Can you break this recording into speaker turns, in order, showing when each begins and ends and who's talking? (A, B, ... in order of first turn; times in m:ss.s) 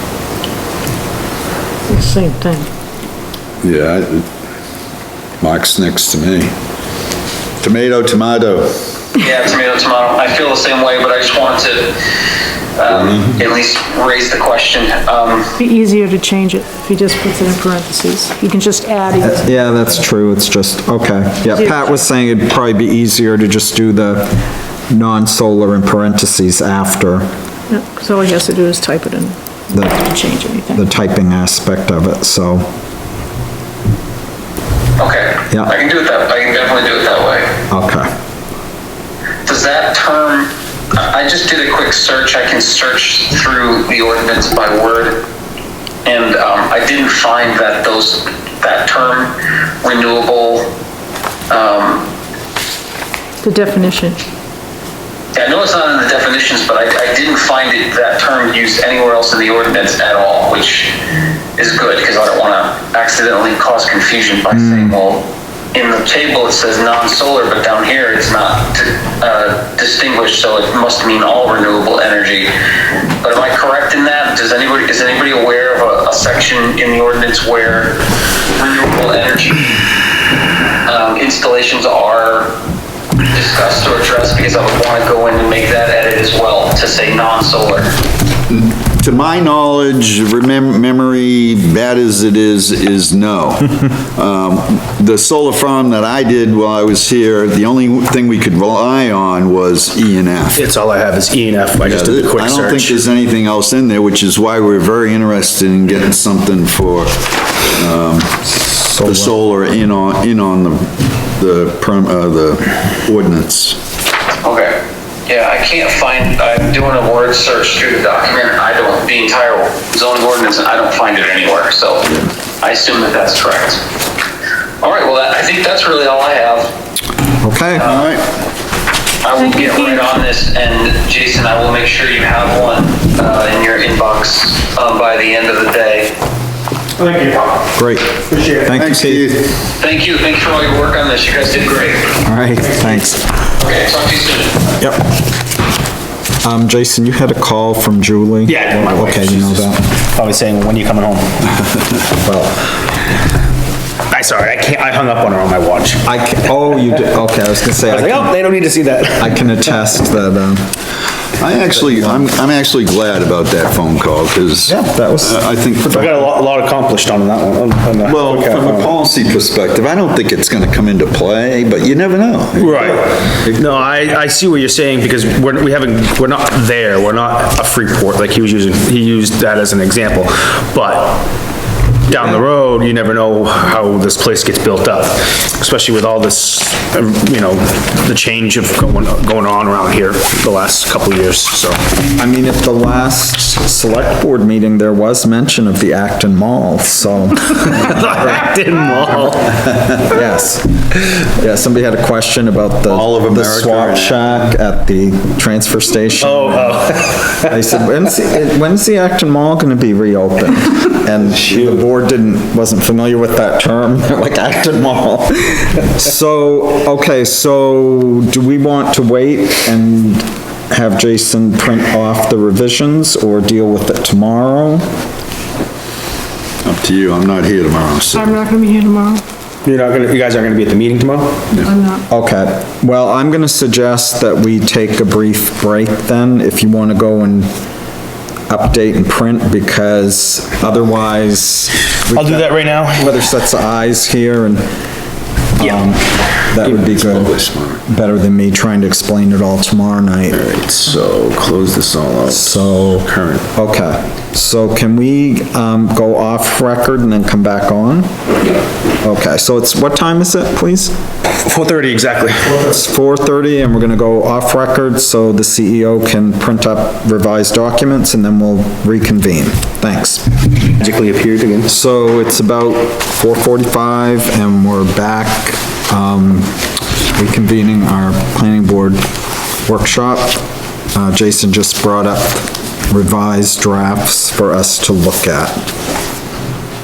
0:01.9-0:02.7 A
0:03.6-0:04.2 B
0:05.4-0:06.5 B
0:07.6-0:08.7 B
0:09.2-0:12.0 C
0:12.8-0:15.5 C
0:12.9-0:13.3 B
0:15.6-0:19.4 A
0:19.2-0:27.3 D
0:21.6-0:22.0 A
0:27.7-0:29.4 A
0:29.7-0:30.0 D
0:29.9-0:30.8 A
0:30.7-0:32.7 D
0:35.0-0:37.5 C
0:37.7-0:38.1 D
0:39.4-0:45.3 C
0:46.0-0:50.7 C
0:51.5-0:52.1 C
0:53.4-0:54.2 A
0:55.3-1:00.9 C
1:01.6-1:12.5 C
1:04.5-1:05.0 D
1:13.2-1:18.0 C
1:18.5-1:19.8 C
1:20.8-1:22.5 C
1:23.3-1:27.9 C
1:28.5-1:40.6 B
1:40.5-1:43.0 E
1:41.8-1:48.5 B
1:48.6-1:49.3 D
1:49.0-1:53.8 B
1:54.4-2:03.8 C
2:04.8-2:06.7 C
2:07.4-2:08.0 D
2:07.7-2:08.1 C
2:07.9-2:08.2 B
2:09.2-2:16.1 C
2:09.4-2:10.2 A
2:17.0-2:17.6 E
2:17.8-2:19.3 D
2:18.3-2:18.8 E
2:18.8-2:19.5 B
2:19.8-2:22.1 C
2:22.2-2:23.2 D
2:22.6-2:23.0 E
2:23.6-2:24.7 C
2:24.8-2:25.1 D
2:26.4-2:29.8 D
2:28.4-2:31.8 E
2:32.1-2:32.6 D
2:34.1-2:36.0 E
2:36.0-2:38.4 D
2:37.8-2:39.6 E
2:39.2-2:40.7 D
2:41.4-2:46.0 B
2:41.7-2:42.3 D
2:44.7-2:45.4 D
2:45.8-2:48.9 E
2:48.0-2:53.8 B
2:52.5-3:01.3 E
3:02.1-3:11.8 E
3:12.1-3:18.3 D
3:17.5-3:19.6 E
3:20.0-3:44.8 D
3:22.9-3:24.2 B
3:26.2-3:27.6 E
3:46.6-3:48.4 B
3:48.1-3:49.2 A
3:49.6-3:51.4 E
3:51.6-3:52.0 A
3:52.1-3:57.5 D
3:58.5-4:04.7 D
4:02.1-4:03.1 E
4:05.6-4:07.3 D
4:06.6-4:07.4 E
4:07.0-4:07.8 B
4:07.8-4:10.4 D
4:10.3-4:13.4 E
4:12.3-4:18.1 D
4:19.0-4:20.9 D
4:21.2-4:22.7 E
4:22.6-4:30.2 D
4:30.7-4:31.7 E
4:31.7-4:36.6 D
4:37.1-4:39.0 D
4:39.6-4:45.6 D